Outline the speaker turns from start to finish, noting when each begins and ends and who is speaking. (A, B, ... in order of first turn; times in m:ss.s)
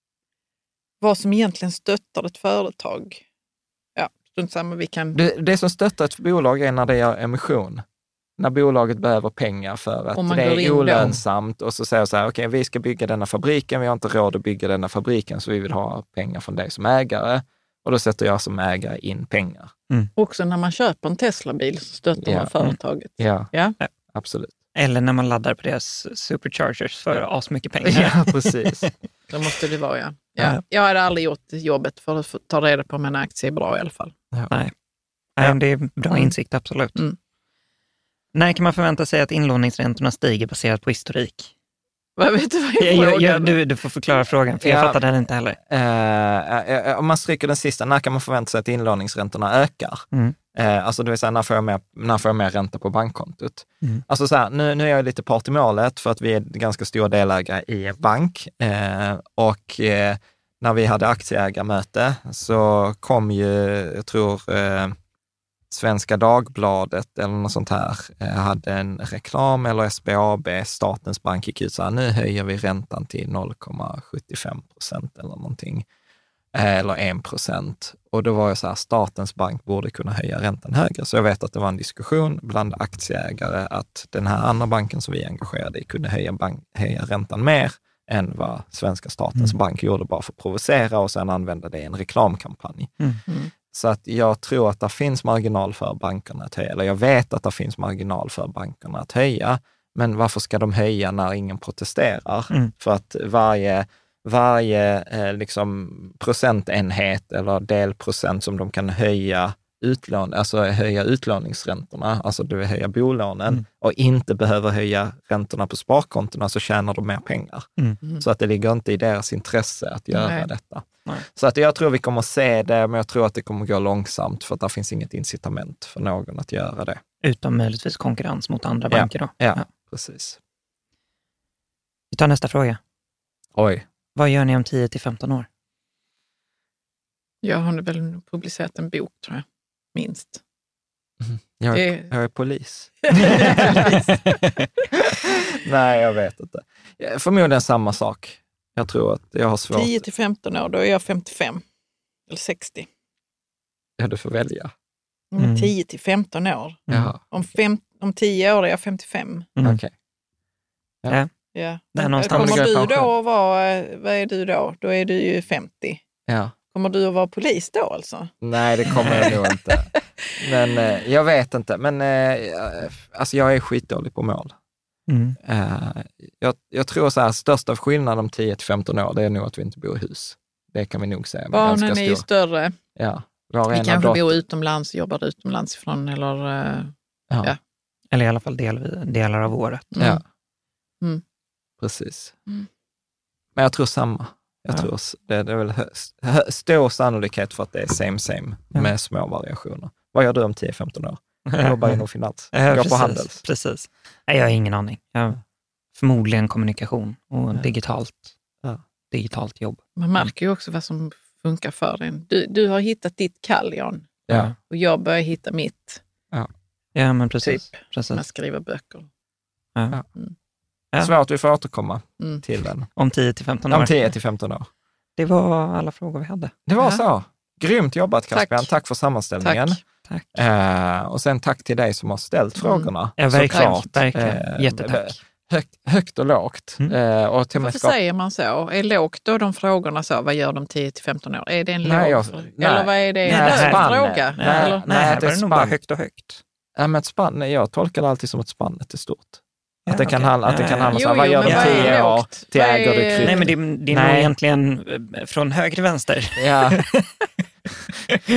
0:01.0-0:03.2 A
0:04.0-0:05.2 A
0:05.1-0:07.8 B
0:08.4-0:19.7 B
0:10.1-0:11.1 A
0:20.2-0:23.8 A
0:22.2-0:22.5 B
0:23.2-0:23.5 B
0:24.1-0:24.5 B
0:24.7-0:28.9 C
0:27.8-0:28.9 B
0:29.3-0:34.1 A
0:35.4-0:37.0 C
0:38.3-0:41.5 C
0:42.2-0:43.6 A
0:42.8-0:45.6 C
0:44.6-0:45.0 B
0:45.7-1:05.0 B
1:05.7-1:15.8 B
1:16.5-1:33.0 B
1:33.7-2:07.0 B
2:00.1-2:00.5 A
2:07.2-2:09.6 C
2:08.9-2:10.4 B
2:12.1-2:12.8 C
2:13.6-2:13.8 B
2:14.1-2:15.5 C
2:17.4-2:20.4 A
2:21.2-2:23.8 B
2:21.7-2:22.1 A
2:23.1-2:24.2 A
2:25.1-2:30.0 B
2:29.7-2:31.6 A
2:32.3-2:32.9 A
2:34.0-2:34.7 B
2:35.3-2:39.5 A
2:35.4-2:35.7 C
2:36.9-2:37.1 C
2:36.9-2:37.2 B
2:39.6-2:39.9 B
2:41.5-2:46.0 A
2:41.9-2:42.8 C
2:42.3-2:43.1 B
2:46.3-2:46.5 B
2:46.7-2:48.3 A
2:48.4-2:54.5 B
2:48.9-2:49.3 C
2:49.0-2:49.3 A
2:55.1-2:55.4 C
2:55.4-3:02.2 B
3:01.5-3:02.7 A
3:03.0-3:04.3 B
3:03.7-3:07.6 A
3:07.3-3:07.5 B
3:08.1-3:09.9 C
3:09.9-3:10.2 A
3:11.8-3:12.4 B
3:13.5-3:23.4 B
3:21.5-3:22.0 C
3:22.5-3:25.4 C
3:26.0-3:28.3 C
3:29.1-3:30.3 C
3:30.0-3:34.1 A
3:34.6-3:36.0 A
3:36.9-3:38.2 C
3:37.4-3:39.1 A
3:41.0-3:42.9 B
3:43.0-3:44.0 C
3:43.7-3:44.7 B
3:45.2-3:46.6 C
3:46.7-3:49.8 B
3:48.3-3:48.7 A
3:49.4-3:49.8 A
3:50.3-3:57.9 B
3:52.6-3:52.9 A
3:53.2-3:55.2 C
3:57.6-4:04.9 A
4:01.8-4:05.8 B
4:03.2-4:06.4 C
4:06.8-4:14.3 B
4:09.9-4:11.9 C
4:10.9-4:13.5 A
4:13.2-4:17.1 C
4:16.4-4:16.8 B